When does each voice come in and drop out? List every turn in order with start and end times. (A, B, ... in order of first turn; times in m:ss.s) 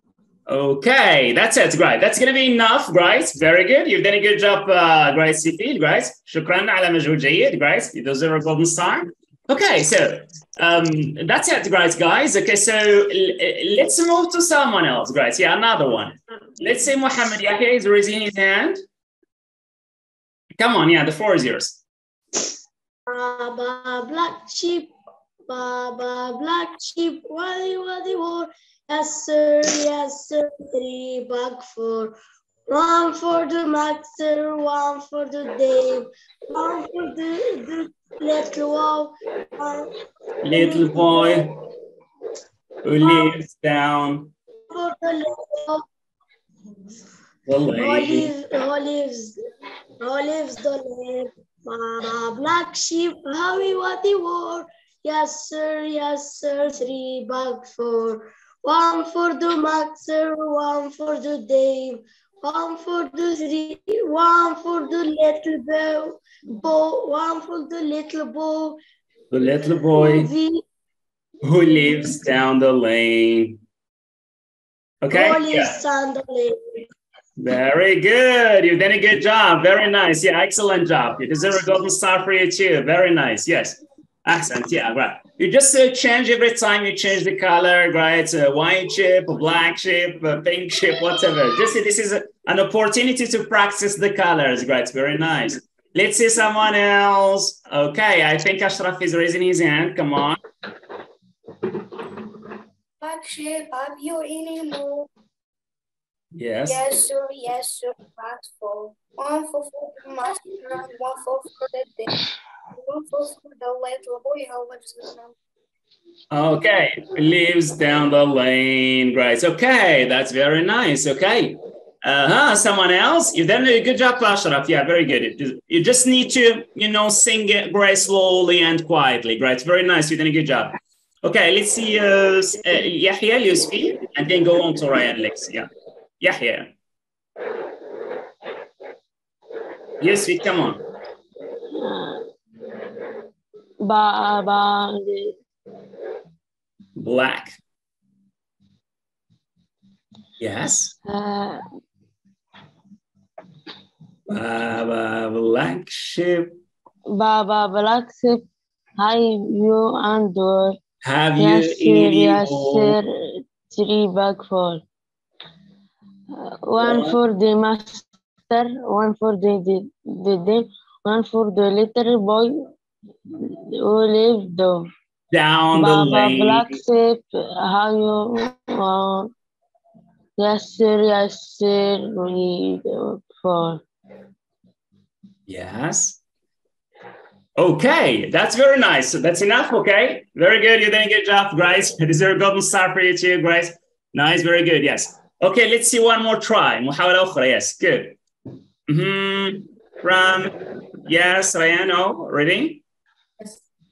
0:00.5-0:18.8 A
0:20.6-0:21.8 A
0:23.1-0:24.9 B
0:25.5-0:32.2 B
0:32.7-0:39.9 B
0:40.4-0:41.5 A
0:40.5-0:41.5 B
0:42.8-0:44.3 A
0:43.0-0:43.3 B
0:44.7-0:45.8 B
0:47.5-0:48.3 A
0:47.8-0:49.4 B
0:50.0-1:08.8 B
1:09.3-1:10.3 A
1:09.9-1:10.6 B
1:11.4-1:13.6 A
1:15.0-1:15.8 A
1:15.1-1:16.6 B
1:17.4-1:40.4 A
1:43.0-1:45.1 C
1:46.3-1:46.8 A
1:46.6-1:52.1 C
1:52.7-1:55.3 C
1:56.3-2:15.7 A
2:16.2-2:16.7 A
2:20.0-2:20.8 A
2:21.8-2:22.2 D
2:23.8-2:25.3 D
2:27.0-2:27.6 A
2:30.4-2:30.9 A
2:31.1-2:31.6 D
2:34.3-2:36.6 A
2:37.1-2:38.4 D
2:39.0-2:40.8 D
2:41.0-2:43.0 A
2:41.4-2:43.1 D
2:43.7-2:44.8 D
2:46.4-2:52.6 D
2:46.8-2:47.2 A
2:53.8-2:54.9 D
2:55.3-2:56.8 A
2:55.7-2:59.3 D
3:00.4-3:03.8 D
3:05.5-3:06.2 A
3:07.6-3:18.2 A
3:18.9-3:22.8 A